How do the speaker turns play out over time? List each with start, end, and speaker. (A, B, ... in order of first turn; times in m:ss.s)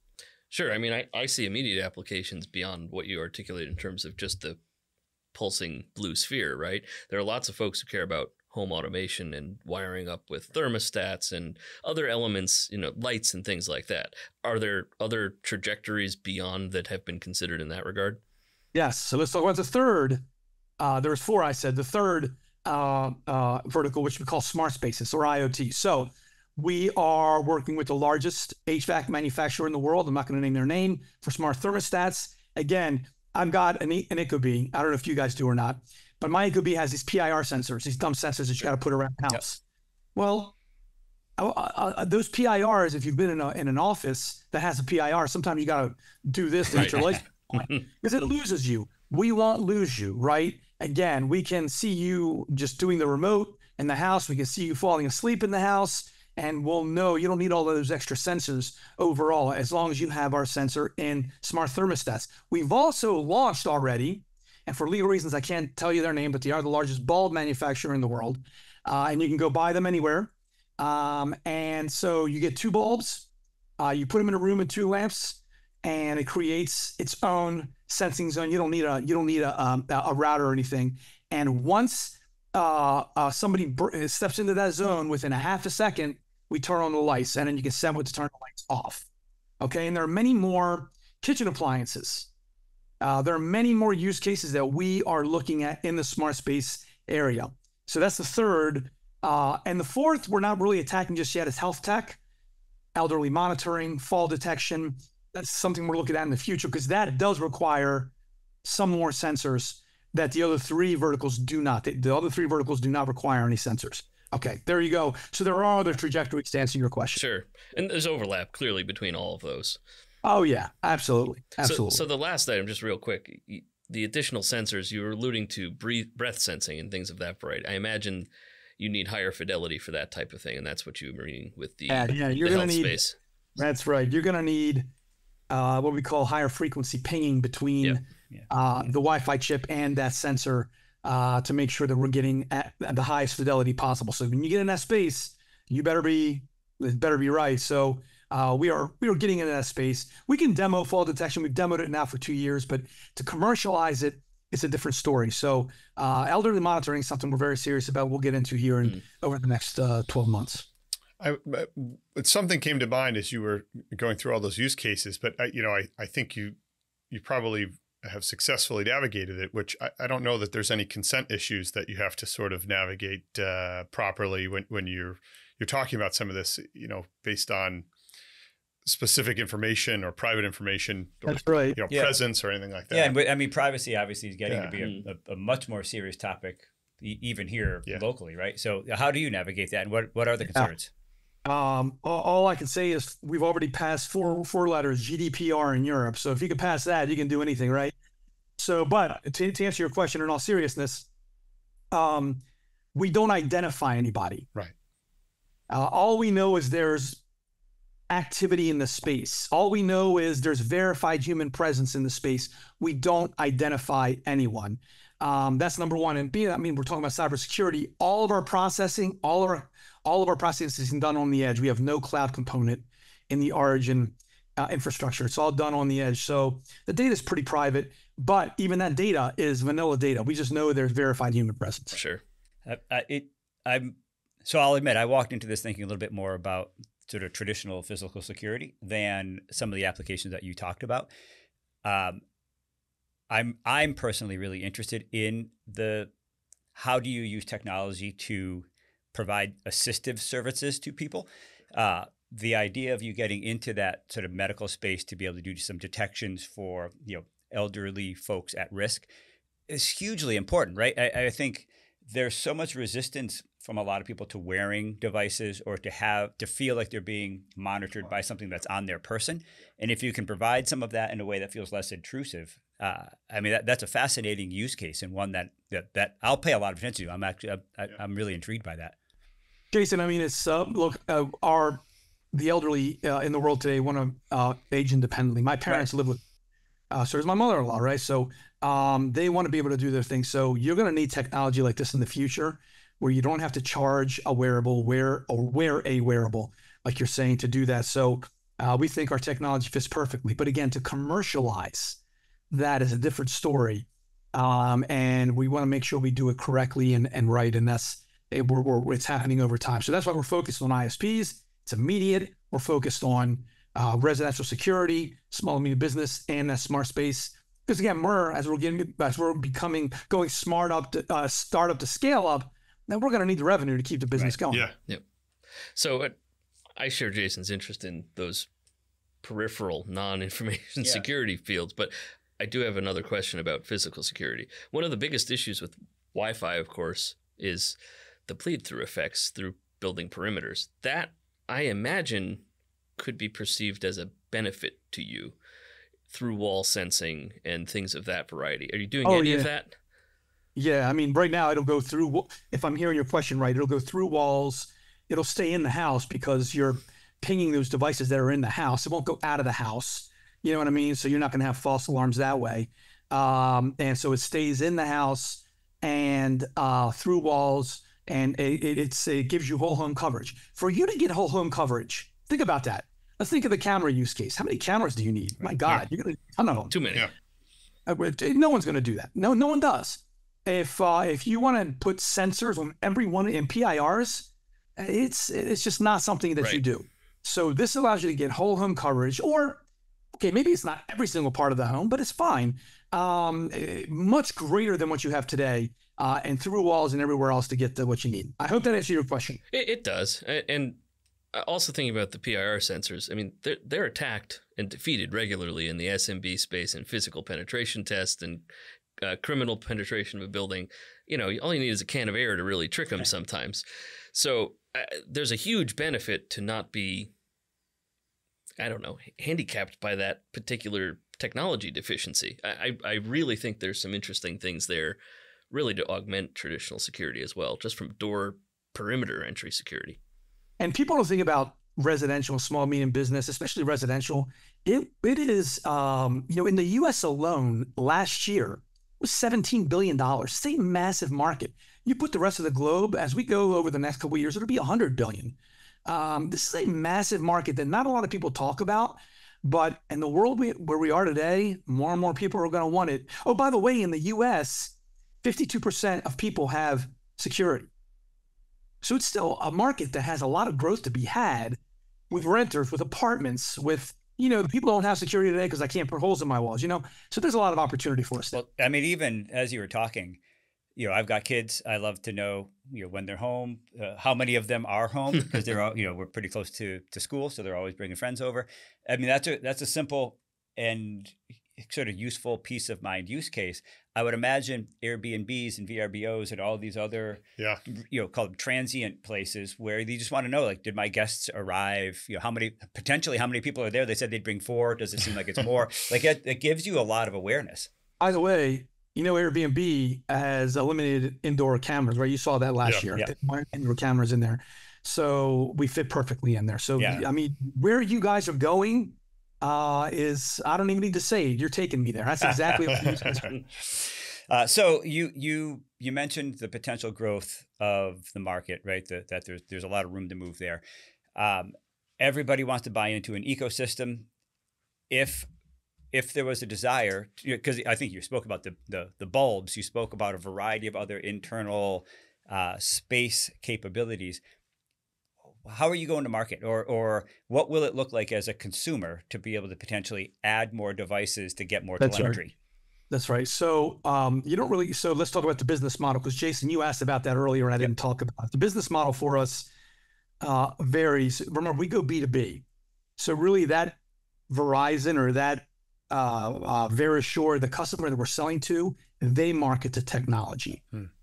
0:00.5-0:04.6 A
0:05.3-0:18.2 A
0:18.7-0:20.2 B
0:20.8-0:39.6 B
0:40.2-0:40.5 B
0:41.4-1:13.3 B
0:46.7-0:47.0 A
1:13.8-1:29.0 B
1:29.6-1:32.3 B
1:33.0-1:42.2 B
1:42.9-1:48.1 B
1:48.6-1:57.2 B
1:57.1-1:59.8 A
2:00.2-2:02.0 B
2:01.6-2:13.2 A
2:11.9-2:13.0 B
2:13.6-2:14.9 B
2:15.5-2:40.6 B
2:41.2-2:46.6 C
2:47.1-2:57.9 C
2:58.8-3:03.2 C
3:01.2-3:01.8 B
3:01.9-3:02.2 D
3:02.9-3:10.9 D
3:04.5-3:04.8 C
3:11.4-3:17.9 B
3:18.6-3:21.1 B
3:21.9-3:22.4 B
3:22.9-3:24.5 B
3:25.7-3:27.2 B
3:28.1-3:52.0 B
3:51.9-3:52.2 A
3:52.6-4:01.1 D
4:01.8-4:02.2 D
4:03.3-4:06.1 D
4:06.7-4:19.1 D
4:19.7-4:38.9 D
4:39.7-4:46.2 B
4:46.9-5:02.0 B
5:02.5-5:24.6 B
5:24.1-5:24.4 D
5:25.7-5:26.2 A
5:26.8-5:28.5 A
5:29.2-5:42.4 A
5:43.0-5:45.4 A
5:46.1-5:49.7 A
5:49.0-5:49.5 B
5:50.5-6:16.8 B
6:16.7-6:17.1 A
6:17.8-6:29.6 B
6:30.2-6:39.4 B
6:39.5-6:40.8 A
6:41.3-6:48.4 A
6:49.0-6:57.1 A
6:58.6-7:05.0 A
7:05.5-7:10.0 A
7:10.6-7:37.7 B
7:38.8-7:41.6 B
7:42.1-7:48.4 B
7:48.3-7:50.2 D
7:50.8-8:17.7 D
8:18.0-8:33.3 B
8:22.6-8:22.9 C
8:26.8-8:27.0 D
8:32.7-8:33.0 C
8:33.6-8:40.6 D
8:41.2-8:44.1 D
8:44.9-8:45.3 D
8:45.9-8:54.2 D
8:55.4-9:02.3 D
9:01.8-9:02.2 B
9:02.9-9:09.5 B
9:10.2-9:12.4 B
9:13.0-9:13.8 B
9:14.3-9:20.6 B